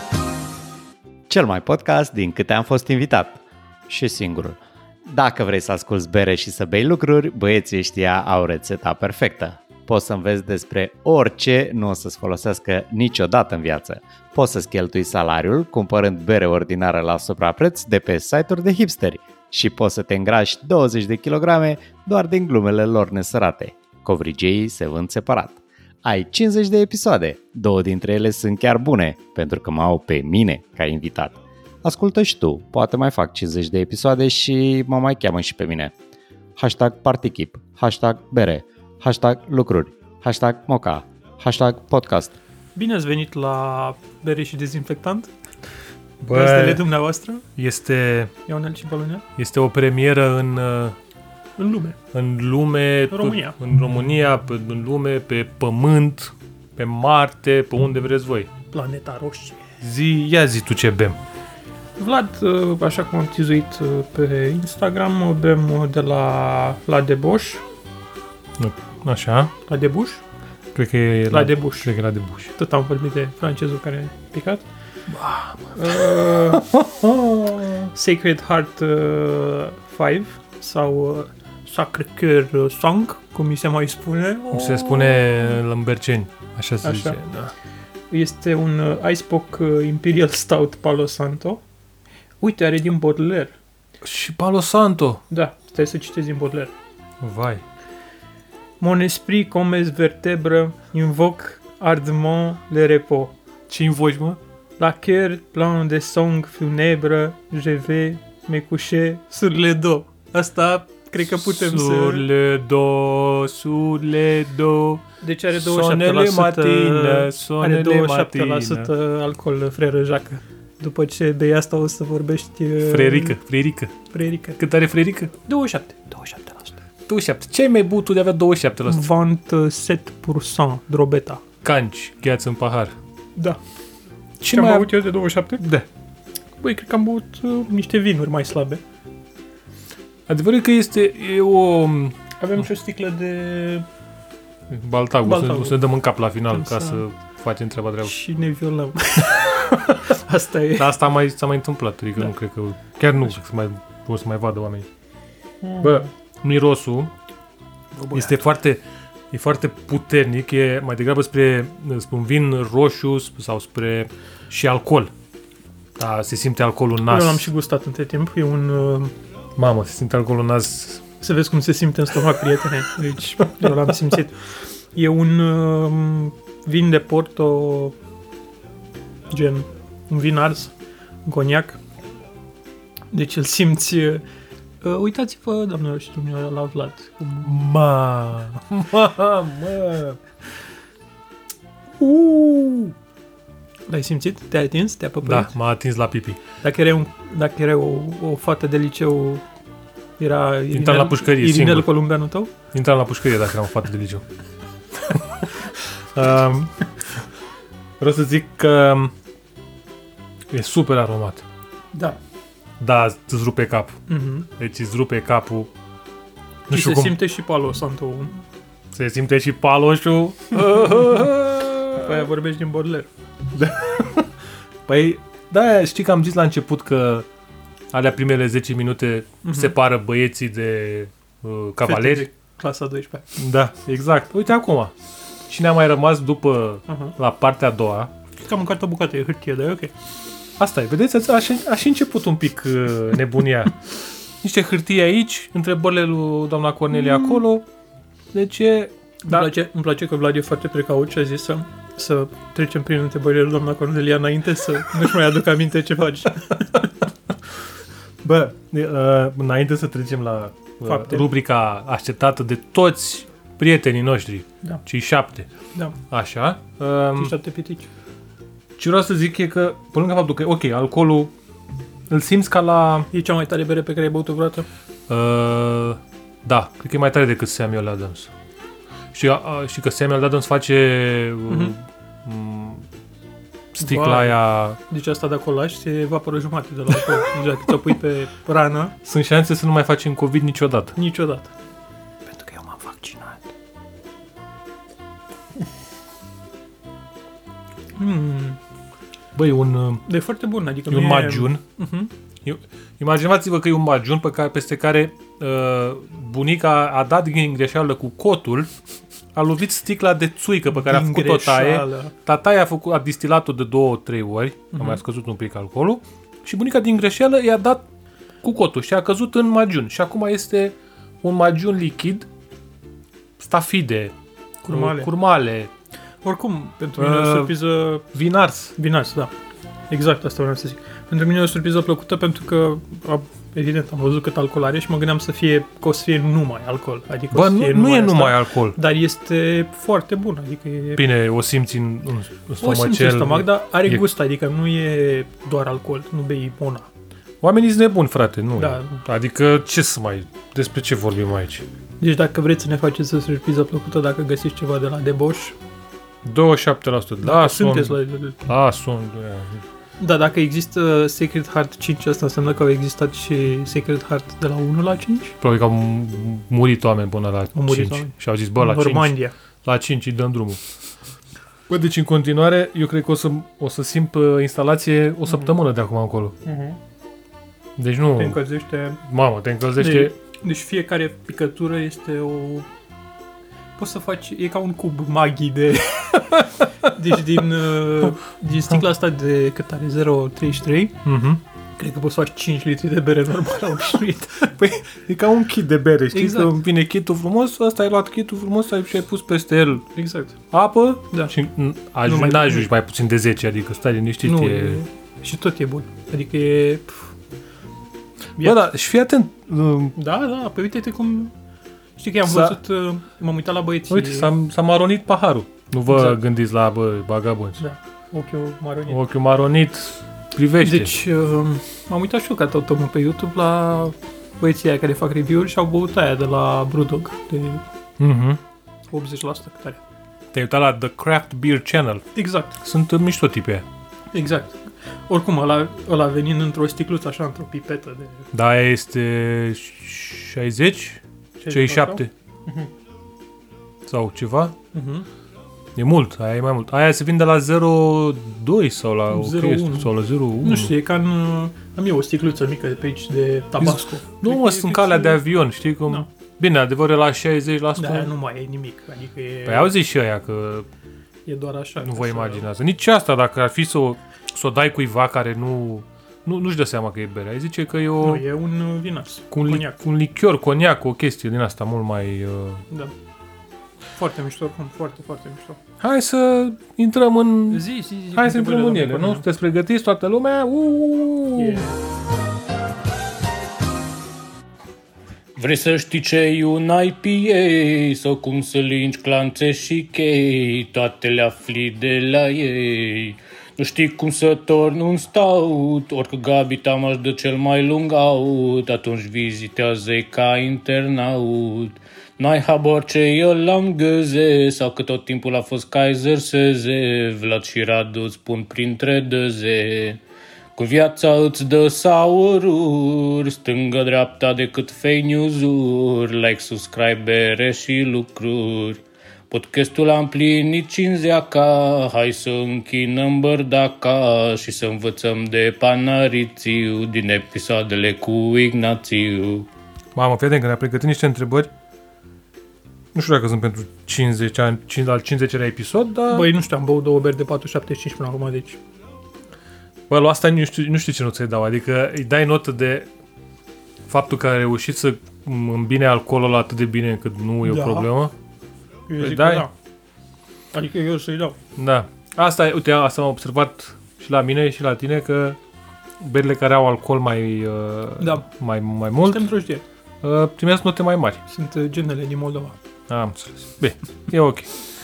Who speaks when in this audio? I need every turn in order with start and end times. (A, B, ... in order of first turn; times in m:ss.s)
0:01.3-0:35.9 A
0:36.6-0:42.3 A
0:42.8-0:45.3 B
0:46.2-0:46.8 C
0:46.3-0:47.4 B
0:47.6-0:48.3 C
0:48.5-0:49.2 B
0:49.4-0:50.9 C
0:51.6-0:52.0 B
0:52.1-0:58.5 C
0:53.1-0:53.6 B
0:58.7-0:59.6 B
0:59.8-1:01.2 C
1:02.0-1:07.6 B
1:08.6-1:09.5 C
1:09.7-1:10.2 B
1:10.7-1:12.5 C
1:11.3-1:11.9 B
1:12.6-1:14.6 B
1:15.1-1:17.9 C
1:15.7-1:16.6 B
1:17.9-1:25.5 B
1:24.5-1:27.5 C
1:26.8-1:27.2 B
1:28.1-1:31.6 B
1:32.4-1:33.5 B
1:34.0-1:35.2 C
1:35.3-1:36.7 B
1:37.2-1:37.6 C
1:38.8-1:43.3 B
1:43.7-1:44.4 C
1:44.8-1:52.2 B
1:51.2-1:55.0 C
1:55.2-2:03.4 B
1:55.5-1:58.9 C
2:02.8-2:03.9 C
2:04.1-2:04.6 B
2:04.6-2:05.3 C
2:05.5-2:06.8 B
2:07.1-2:09.1 C
2:08.8-2:11.4 B
2:11.6-2:12.9 C
2:14.4-2:15.0 C
2:14.5-2:15.6 B
2:15.6-2:15.8 C
2:16.6-2:18.8 B
2:20.3-2:22.2 C
2:22.4-2:23.8 B
2:24.7-2:28.1 C
2:25.2-2:25.8 B
2:26.5-2:27.0 B
2:28.0-2:30.9 B
2:29.7-2:30.0 C
2:30.8-2:34.9 C
2:35.6-2:36.0 B
2:35.8-2:37.1 C
2:37.9-2:38.4 B
2:38.1-2:38.8 C
2:39.3-2:45.1 C
2:46.0-2:47.5 C
2:47.1-2:49.1 B
2:49.6-2:51.0 C
2:51.2-2:58.0 B
2:59.3-3:00.7 B
3:01.2-3:01.8 B
3:03.1-3:04.2 B
3:04.8-3:07.7 B
3:07.4-3:10.2 C
3:12.0-3:12.9 C
3:13.9-3:15.5 B
3:15.2-3:16.4 C
3:16.6-3:19.4 B
3:20.2-3:22.5 B
3:20.7-3:21.9 C
3:22.7-3:24.2 C
3:25.0-3:26.9 C
3:28.0-3:29.1 C
3:30.5-3:31.4 C
3:32.8-3:34.0 C
3:34.1-3:34.5 B
3:34.6-3:35.7 C
3:36.7-3:38.4 B
3:36.7-3:37.2 C
3:38.9-3:42.2 C
3:42.0-3:43.1 B
3:43.5-3:44.3 C
3:44.9-3:47.2 C
3:47.9-3:52.3 C
3:49.4-3:49.7 B
3:51.8-3:53.3 B
3:53.4-3:54.9 C
3:55.5-3:58.1 C
3:56.9-3:57.2 B
3:58.4-3:59.9 B
4:00.6-4:03.9 C
4:04.4-4:07.6 C
4:06.9-4:07.4 B
4:08.3-4:09.5 C
4:09.2-4:16.9 B
4:18.2-4:25.5 C
4:20.8-4:21.3 B
4:26.1-4:27.3 C
4:27.2-4:27.9 B
4:28.8-4:31.3 C
4:32.1-4:33.1 C
4:33.1-4:34.7 B
4:35.1-4:38.3 C
4:39.1-4:42.8 C
4:41.5-4:41.7 B
4:43.7-4:44.8 C
4:43.8-4:48.9 B
4:49.0-4:50.9 C
4:51.0-4:51.5 B
4:52.2-4:53.5 B
4:58.0-4:58.6 B
4:59.3-5:00.1 C
5:00.0-5:02.1 B
5:00.9-5:01.6 C
5:02.4-5:08.7 C
5:09.3-5:17.8 C
5:10.7-5:12.1 B
5:14.7-5:15.0 B
5:18.4-5:22.3 C
5:23.4-5:24.1 C
5:24.6-5:25.1 B
5:24.7-5:25.7 C
5:26.2-5:28.0 B
5:27.0-5:27.5 C
5:28.1-5:28.7 C
5:28.8-5:29.3 B
5:29.9-5:41.0 B
5:37.3-5:38.8 C
5:41.0-5:44.0 C
5:42.6-5:46.9 B
5:47.4-5:51.6 C
5:48.6-5:49.0 B
5:52.0-5:55.5 B
5:56.2-5:59.6 C
5:57.2-5:58.4 B
6:00.0-6:05.3 B
6:05.4-6:10.6 C
6:07.5-6:09.3 B
6:11.7-6:16.4 C
6:15.3-6:15.5 B
6:16.4-6:16.8 B
6:17.8-6:18.4 C
6:18.2-6:19.0 B
6:19.0-6:20.1 C
6:19.8-6:22.7 B
6:23.8-6:31.0 B
6:31.0-6:31.4 C
6:31.8-6:34.5 B
6:34.5-6:39.8 C
6:36.1-6:36.5 B
6:39.9-6:40.4 B
6:40.5-6:44.8 C
6:42.0-6:42.7 B
6:44.2-6:47.1 B
6:48.4-6:50.0 C
6:50.0-6:51.3 B
6:52.0-6:54.3 B
6:52.2-6:52.6 C
6:53.9-6:57.6 C
6:55.9-6:56.2 B
6:57.6-6:59.0 B
6:58.9-7:00.9 C
7:00.6-7:07.6 B
7:08.0-7:08.4 C
7:08.9-7:09.8 B
7:10.3-7:12.0 C
7:12.1-7:12.6 B
7:12.6-7:13.6 C
7:14.1-7:18.2 B
7:18.3-7:22.1 C
7:21.4-7:22.7 B
7:23.9-7:24.5 C
7:24.7-7:25.0 B
7:25.8-7:30.7 C
7:29.1-7:29.9 B
7:30.4-7:35.2 B
7:33.6-7:38.1 C
7:37.8-7:39.7 B
7:39.4-7:40.6 C
7:41.2-7:42.4 B
7:41.8-7:48.2 C
7:48.0-7:49.8 B
7:49.3-7:52.6 C
7:54.0-7:55.6 B
7:55.8-8:01.6 C
7:57.5-7:59.2 B
8:01.3-8:01.8 B
8:05.4-8:30.0 D
8:30.6-8:38.8 D
8:39.3-8:49.5 D
8:49.9-8:51.5 C
8:52.9-8:56.3 C
8:56.1-8:58.6 B
8:59.9-9:02.9 C
9:03.9-9:08.1 C
9:07.4-9:07.9 B
9:08.9-9:09.5 B
9:09.0-9:09.4 C
9:10.5-9:11.4 B
9:11.6-9:15.4 C
9:16.0-9:19.3 C
9:18.0-9:18.2 B
9:19.0-9:19.6 B
9:20.0-9:21.2 C
9:21.3-9:22.6 B
9:22.9-9:24.5 C